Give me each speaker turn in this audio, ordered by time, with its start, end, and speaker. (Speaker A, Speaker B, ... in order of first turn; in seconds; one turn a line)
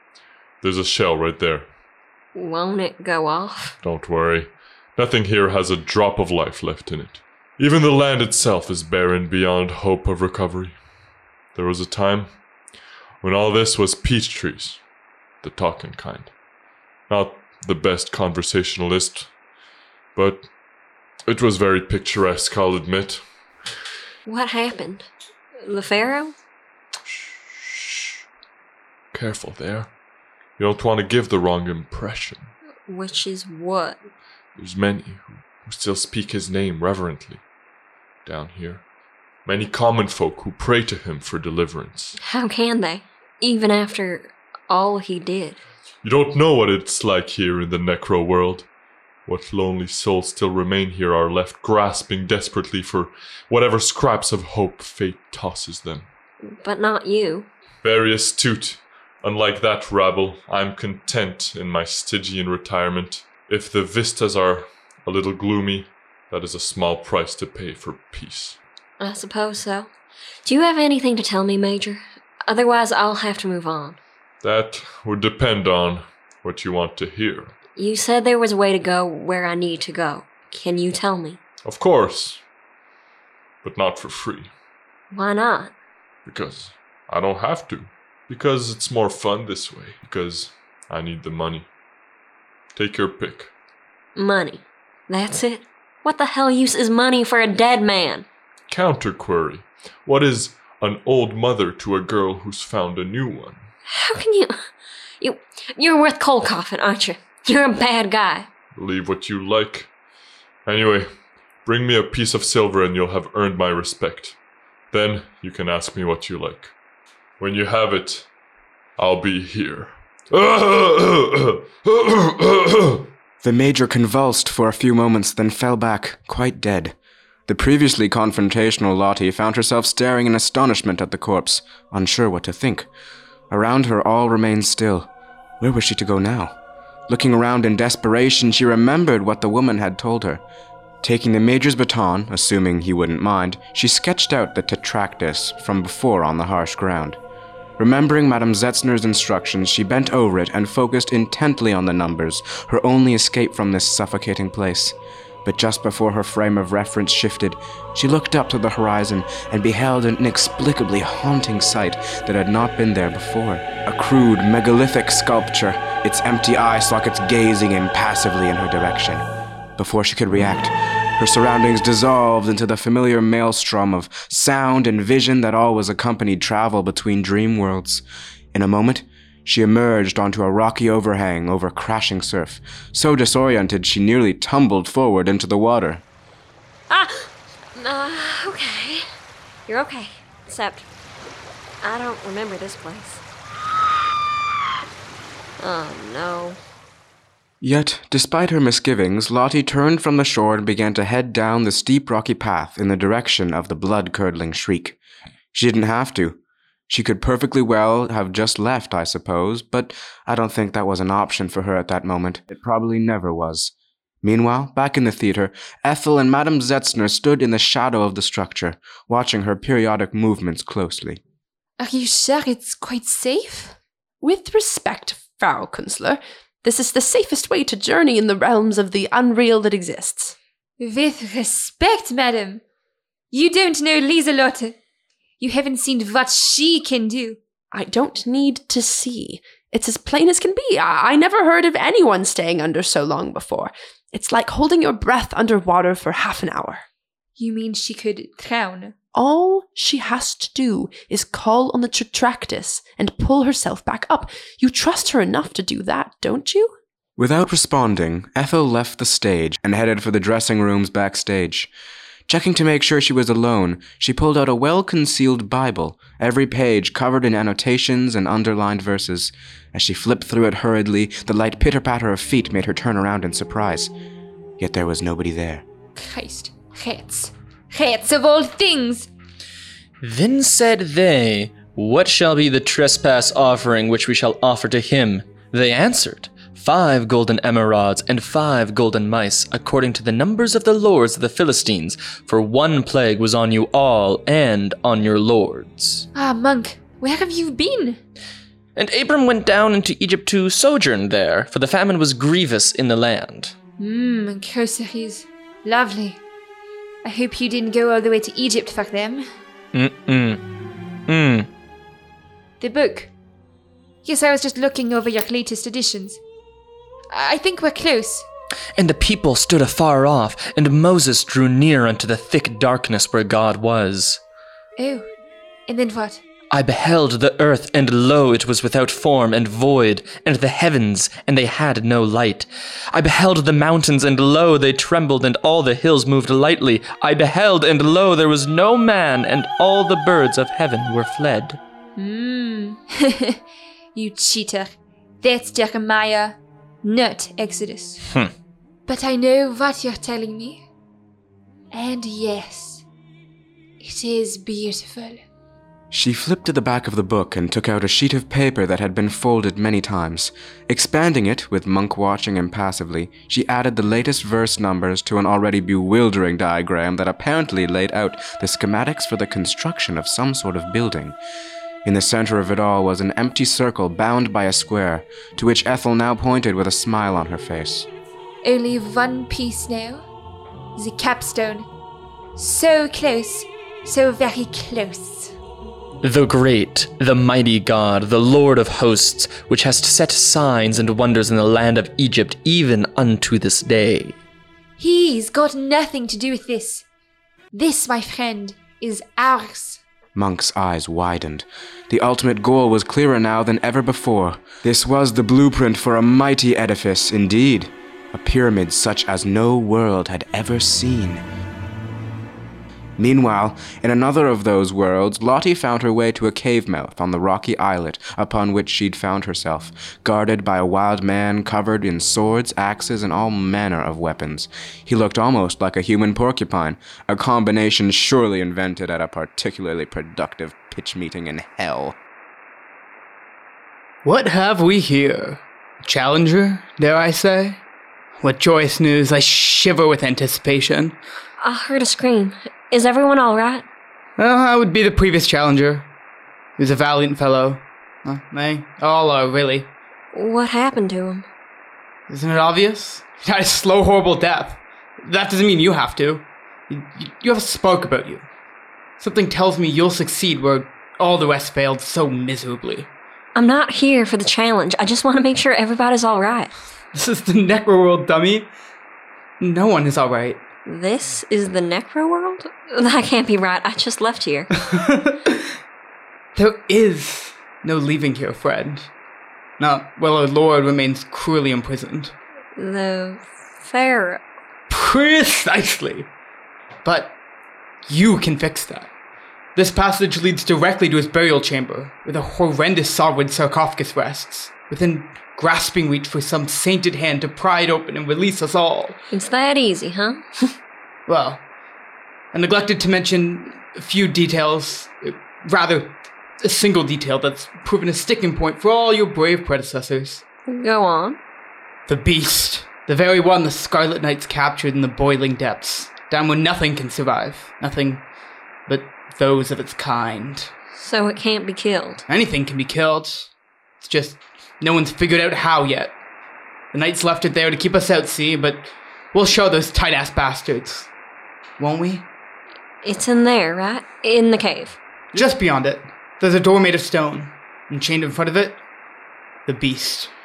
Speaker A: 0.6-1.7
Speaker B: 2.4-3.8
Speaker A: 3.8-10.8
Speaker A: 11.5-12.4
Speaker A: 13.2-14.9
Speaker A: 15.4-16.3
Speaker A: 17.1-19.4
Speaker A: 20.1-20.5
Speaker A: 21.3-23.4
Speaker B: 24.3-25.1
Speaker B: 25.6-26.4
Speaker A: 27.1-28.2
Speaker A: 29.1-29.9
Speaker A: 30.6-32.5
Speaker B: 32.9-34.0
Speaker A: 34.6-37.5
Speaker A: 38.2-38.9
Speaker A: 39.5-42.2
Speaker B: 42.2-45.6
Speaker A: 46.0-48.7
Speaker A: 49.2-56.1
Speaker B: 56.4-57.5
Speaker A: 57.8-68.6
Speaker B: 69.0-69.9
Speaker B: 70.5-74.0
Speaker A: 74.4-77.5
Speaker B: 77.8-81.4
Speaker A: 81.6-82.4
Speaker A: 83.6-84.5
Speaker B: 85.1-85.7
Speaker A: 86.2-91.7
Speaker A: 92.7-93.5
Speaker B: 94.2-98.3
Speaker A: 98.7-103.7
Speaker B: 103.9-104.7
Speaker B: 105.2-108.5
Speaker A: 108.7-109.9
Speaker A: 110.7-111.1
Speaker A: 111.6-114.4
Speaker A: 114.9-116.7
Speaker A: 117.4-118.3
Speaker A: 119.0-123.0
Speaker C: 123.4-132.9
Speaker C: 133.5-140.4
Speaker C: 141.0-147.2
Speaker C: 147.8-169.2
Speaker C: 169.8-186.0
Speaker B: 186.9-189.1
Speaker B: 189.7-190.9
Speaker B: 191.8-193.2
Speaker B: 195.6-196.6
Speaker C: 197.6-205.0
Speaker C: 205.5-221.2
Speaker D: 221.8-223.8
Speaker E: 224.2-230.4
Speaker D: 230.8-232.6
Speaker D: 233.3-234.8
Speaker D: 235.4-237.4
Speaker E: 237.7-246.8
Speaker D: 247.4-249.0
Speaker E: 249.1-256.8
Speaker C: 257.2-261.7
Speaker C: 262.3-273.9
Speaker C: 274.6-275.7
Speaker D: 276.0-279.1
Speaker F: 280.0-296.1
Speaker D: 296.1-298.0
Speaker F: 298.8-303.5
Speaker D: 303.8-306.2
Speaker D: 307.0-309.3
Speaker F: 309.7-310.4
Speaker F: 311.1-311.5
Speaker D: 312.6-313.1
Speaker D: 314.1-316.2
Speaker D: 317.1-318.3
Speaker F: 318.8-324.2
Speaker D: 324.8-325.1
Speaker D: 325.7-326.2
Speaker F: 326.5-341.6
Speaker D: 342.0-343.4
Speaker D: 343.9-348.0
Speaker D: 348.9-350.6
Speaker D: 351.7-352.9
Speaker D: 353.8-355.2
Speaker C: 355.9-371.2
Speaker C: 371.8-377.9
Speaker D: 378.4-380.0
Speaker D: 380.8-381.7
Speaker D: 382.4-385.4
Speaker F: 386.0-394.2
Speaker D: 394.8-396.9
Speaker D: 397.5-399.8
Speaker C: 400.1-411.2
Speaker C: 413.0-432.0
Speaker G: 434.0-437.6
Speaker G: 438.2-441.0
Speaker B: 441.4-443.7
Speaker G: 444.2-445.9
Speaker G: 446.6-449.7
Speaker B: 450.1-451.3
Speaker G: 452.1-458.3
Speaker G: 459.0-462.9
Speaker B: 463.4-466.5
Speaker G: 466.9-468.5
Speaker G: 469.4-470.4
Speaker B: 470.7-474.5
Speaker G: 474.7-475.5
Speaker G: 476.4-478.9
Speaker G: 479.6-482.1
Speaker B: 482.6-484.2
Speaker G: 484.7-486.1
Speaker G: 486.8-487.2
Speaker G: 487.9-488.9
Speaker G: 489.6-499.0
Speaker B: 499.1-500.5
Speaker G: 501.1-501.4
Speaker G: 502.3-510.2
Speaker B: 510.5-511.2
Speaker G: 511.9-518.1
Speaker G: 518.7-520.5
Speaker B: 520.8-522.0
Speaker G: 522.1-526.0
Speaker G: 526.7-530.9
Speaker G: 531.6-532.1
Speaker B: 532.8-534.8
Speaker G: 535.1-538.6
Speaker G: 539.5-540.1